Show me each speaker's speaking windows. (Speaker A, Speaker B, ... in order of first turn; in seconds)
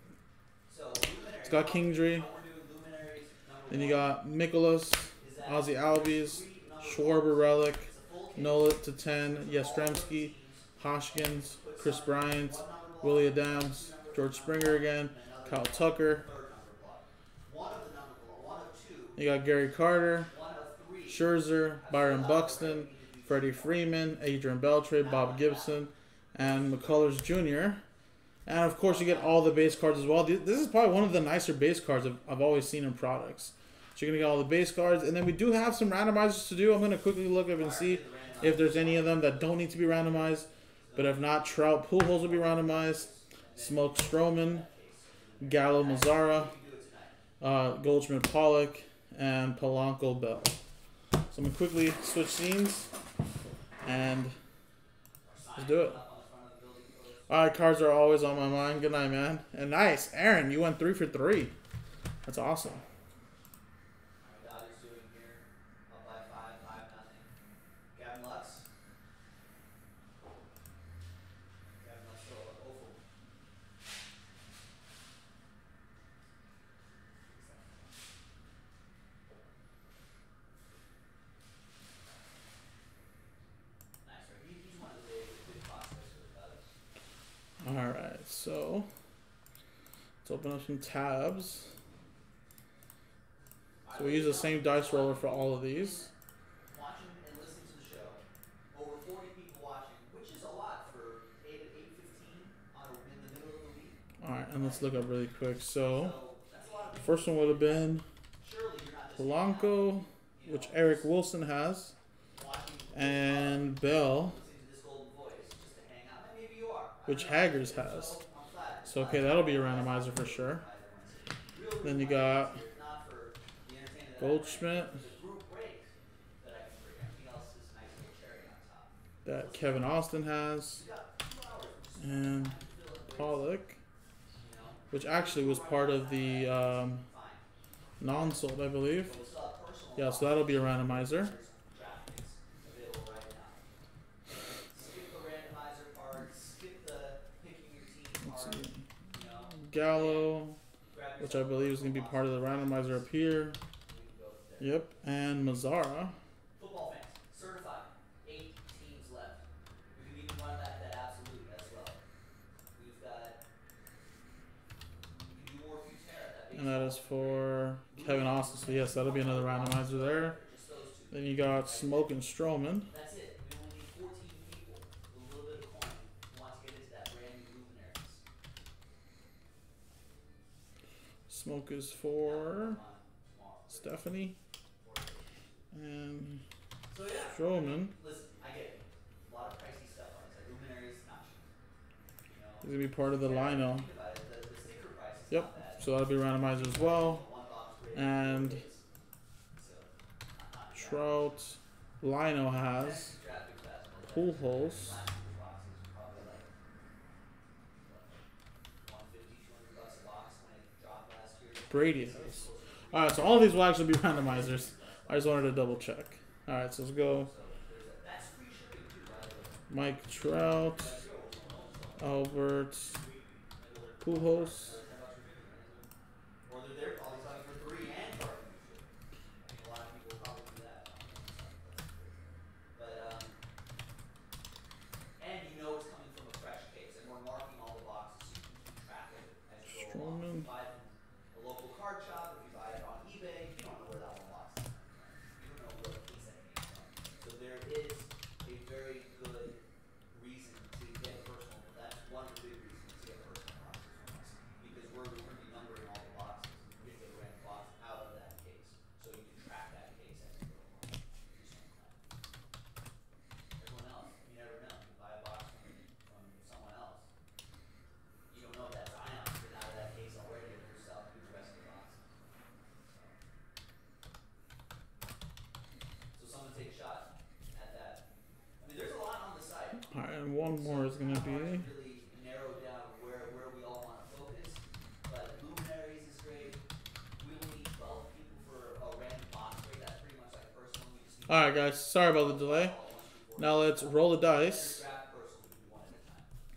Speaker A: 0.7-4.2, 5.2-19.2, 20.3-23.9, 25.0-25.9, 26.4-27.0, 28.8-30.2, 37.5-47.2, 55.2-57.3, 64.2-67.3, 67.9-68.7, 71.8-73.0, 77.2-78.0, 84.0-86.7, 93.8-96.1, 96.7-104.0, 104.5-105.1, 105.9-111.1, 112.3-130.0, 130.7-133.6, 134.4-137.5, 138.1-143.6, 144.6-153.1, 153.8-154.9, 156.6-162.0, 162.7-163.4, 165.3-172.2, 172.9-178.2, 182.2-184.1, 184.8-185.6, 186.9-191.5, 192.3-198.8, 199.6-201.3, 202.7-206.5, 207.7-208.2, 208.8-215.9, 217.1-219.7, 220.2-225.9, 226.5-228.9, 229.4-233.4, 235.2-262.2, 263.6-267.1, 268.3-272.2, 272.8-273.1, 276.1-278.1, 278.6-279.9, 280.5-286.6, 287.2-296.3
Speaker B: 1.4-2.3, 3.7-16.2, 19.2-20.3, 21.1-27.8, 28.5-44.7, 45.4-46.5, 47.4-50.6, 51.3-52.9, 53.8-54.4, 55.6-56.0, 57.3-61.5, 62.2-62.8, 87.6-88.9, 90.2-91.7, 93.9-96.1, 104.2-106.2, 107.0-108.0, 109.1-111.9, 112.9-114.4, 117.1-118.2, 118.8-120.7, 121.8-122.6, 124.2-125.0, 129.2-130.8, 132.0-132.6, 133.2-133.8, 134.9-137.1, 138.0-139.2, 140.0-141.3, 148.2-148.8, 149.6-150.6, 151.2-153.6, 154.6-156.2, 166.5-170.4, 171.1-172.9, 181.3-182.8, 183.7-184.4, 185.7-186.4, 187.3-187.9, 192.6-193.9, 195.3-197.3, 197.9-198.6, 200.7-203.1, 204.1-205.0, 211.7-217.3, 219.7-221.0, 222.0-223.0, 224.0-224.8, 239.7-240.5, 279.9-281.7, 291.3-292.8, 293.4-294.8